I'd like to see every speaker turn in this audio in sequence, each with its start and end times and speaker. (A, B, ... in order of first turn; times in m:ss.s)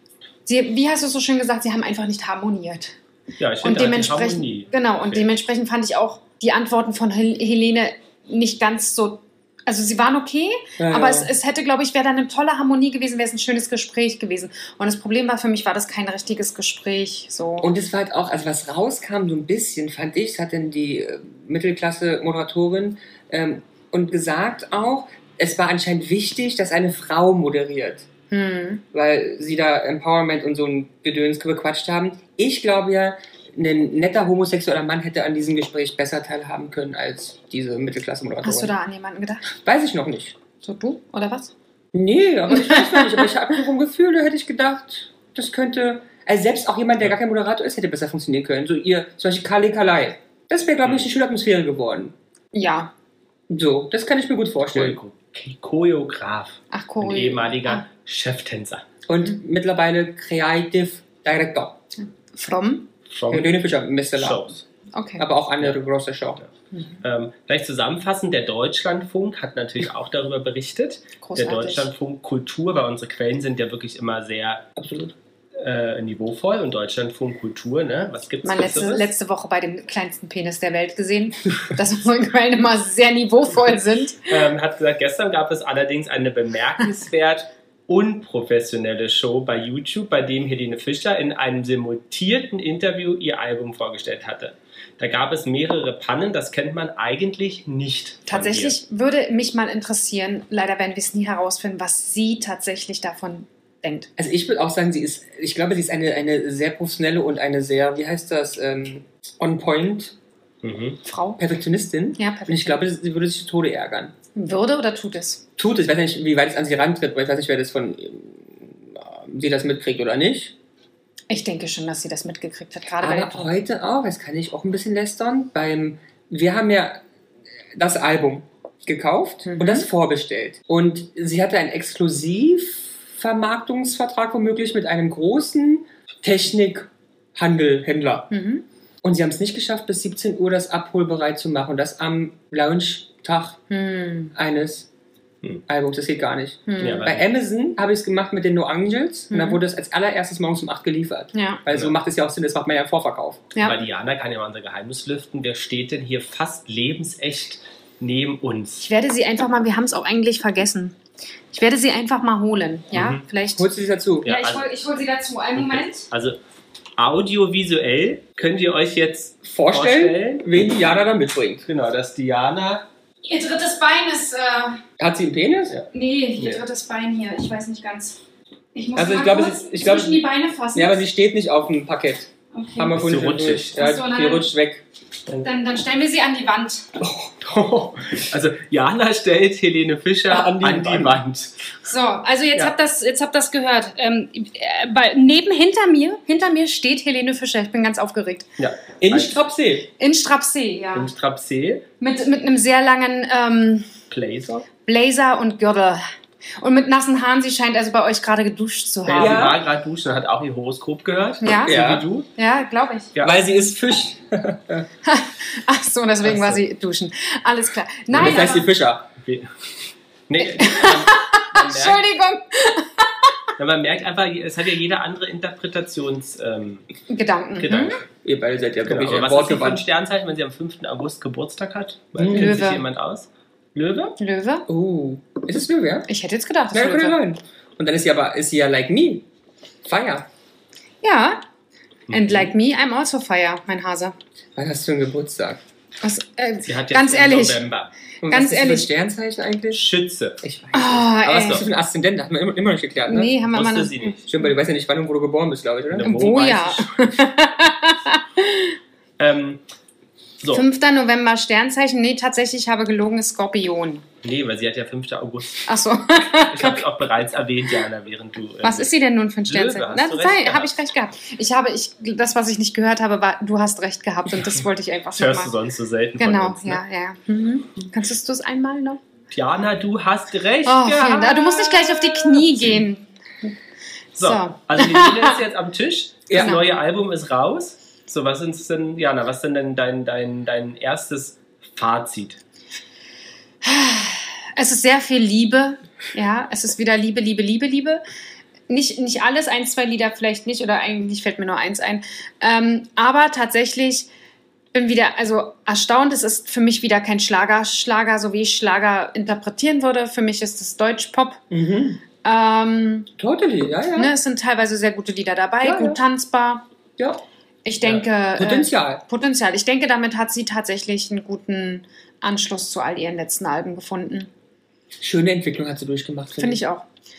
0:00.4-0:03.0 A
0:03.4-0:05.3 B
0:03.6-0:17.7 A
0:10.8-0:11.3 C
0:17.6-0:28.1 C
0:28.3-0:28.8 A
0:28.9-0:38.7 C
0:38.4-0:39.5 A
0:39.5-0:40.3 C
0:40.6-0:41.5 A
0:41.9-0:52.1 C
0:42.5-0:43.3 A
0:50.8-0:51.1 B
0:52.5-0:52.9 A
0:53.5-0:55.0 C
0:54.7-0:58.8 B
0:56.7-0:57.8 A
0:59.1-1:01.8 C
1:02.0-1:02.9 A
1:03.1-1:03.5 B
1:03.3-1:04.6 C
1:04.1-1:04.6 B
1:04.9-1:05.2 A
1:05.2-1:06.4 C
1:06.7-1:07.0 A
1:07.0-1:14.6 B
1:11.2-1:11.9 A
1:14.8-1:15.1 C
1:15.6-1:19.1 B
1:18.4-1:24.4 A
1:24.2-1:38.8 B
1:38.3-1:44.1 A
1:44.2-1:50.1 C
1:50.6-1:51.0 B
1:51.0-1:51.4 A
1:51.4-1:54.1 C
1:52.2-1:52.8 A
1:54.3-1:55.4 A
1:55.6-2:00.5 C
2:01.3-2:03.5 A
2:03.0-2:07.0 C
2:07.7-2:18.3 C
2:09.4-2:09.8 A
2:18.3-2:18.6 A
2:19.0-2:23.6 C
2:23.7-2:24.3 A
2:24.3-2:24.9 C
2:25.7-2:33.5 C
2:26.7-2:27.1 A
2:26.8-2:27.2 B
2:29.3-2:29.6 A
2:31.3-2:31.6 A
2:33.6-2:38.9 B
2:38.8-2:40.9 A
2:41.5-2:43.7 A
2:42.9-2:43.2 B
2:43.6-2:44.3 C
2:44.2-2:46.1 A
2:44.2-2:44.7 B
2:45.6-2:46.4 B
2:47.0-2:50.4 B
2:49.4-2:51.6 C
2:51.6-2:52.8 B
2:53.2-2:54.8 A
2:55.0-2:55.8 C
2:55.7-2:56.6 B
2:55.9-2:58.2 A
2:58.7-3:01.0 A
2:59.0-3:00.2 C
3:00.7-3:04.8 C
3:02.5-3:03.0 A
3:02.9-3:03.8 B
3:03.7-3:04.5 A
3:05.4-3:06.9 A
3:07.4-3:11.6 B
3:10.3-3:11.2 C
3:11.8-3:18.5 A
3:18.6-3:19.3 B
3:19.0-3:19.9 C
3:20.0-3:21.1 A
3:20.9-3:21.9 B
3:22.0-3:23.9 A
3:24.1-3:24.7 B
3:24.8-3:26.0 A
3:26.6-3:29.5 A
3:29.0-3:32.3 B
3:29.1-3:29.6 C
3:31.4-3:31.8 A
3:31.6-3:32.0 C
3:32.3-3:33.1 A
3:33.2-3:34.9 C
3:35.0-3:38.7 A
3:36.2-3:36.6 B
3:38.1-3:39.1 C
3:38.1-3:38.6 B
3:39.2-3:39.5 B
3:40.3-3:42.0 B
3:40.4-3:43.3 A
3:43.6-3:46.8 B
3:47.1-3:48.0 A
3:47.6-3:48.0 B
3:48.2-3:49.8 C
3:48.8-3:54.2 B
3:52.2-3:52.6 C
3:52.3-3:52.8 A
3:54.2-3:54.6 A
3:54.7-3:56.1 C
3:56.1-3:57.2 A
3:56.7-3:59.2 C
3:59.8-4:00.2 C
4:01.0-4:01.4 A
4:02.1-4:02.5 B
4:02.1-4:04.1 A
4:04.6-4:05.6 C
4:06.0-4:07.6 A
4:06.6-4:07.9 B
4:08.2-4:09.8 C
4:08.3-4:08.9 A
4:09.7-4:10.4 B
4:10.4-4:13.3 C
4:10.7-4:11.6 A
4:13.1-4:14.2 A
4:13.4-4:14.2 B
4:14.2-4:16.1 C
4:15.9-4:16.9 B
4:16.0-4:18.8 A
4:19.2-4:19.6 B
4:20.4-4:20.7 B
4:20.5-4:24.0 A
4:24.2-4:25.7 B
4:25.6-4:26.8 A
4:26.3-4:28.9 B
4:28.6-4:35.5 A
4:29.4-4:30.7 B
4:35.2-4:36.8 B
4:36.2-4:39.0 A
4:39.3-4:42.8 B
4:40.6-4:43.5 A
4:44.2-4:45.4 A
4:44.2-4:52.4 B
4:46.3-4:46.6 C
4:46.4-4:46.6 A
4:53.6-4:58.0 A
4:58.7-5:04.1 A
5:04.7-5:11.4 A
5:11.5-5:12.0 C
5:12.2-5:13.1 A
5:13.2-5:14.1 C
5:14.0-5:16.6 A
5:15.6-5:16.0 C
5:17.6-5:24.3 A
5:18.4-5:19.0 C
5:25.0-5:26.6 C
5:26.4-5:26.8 A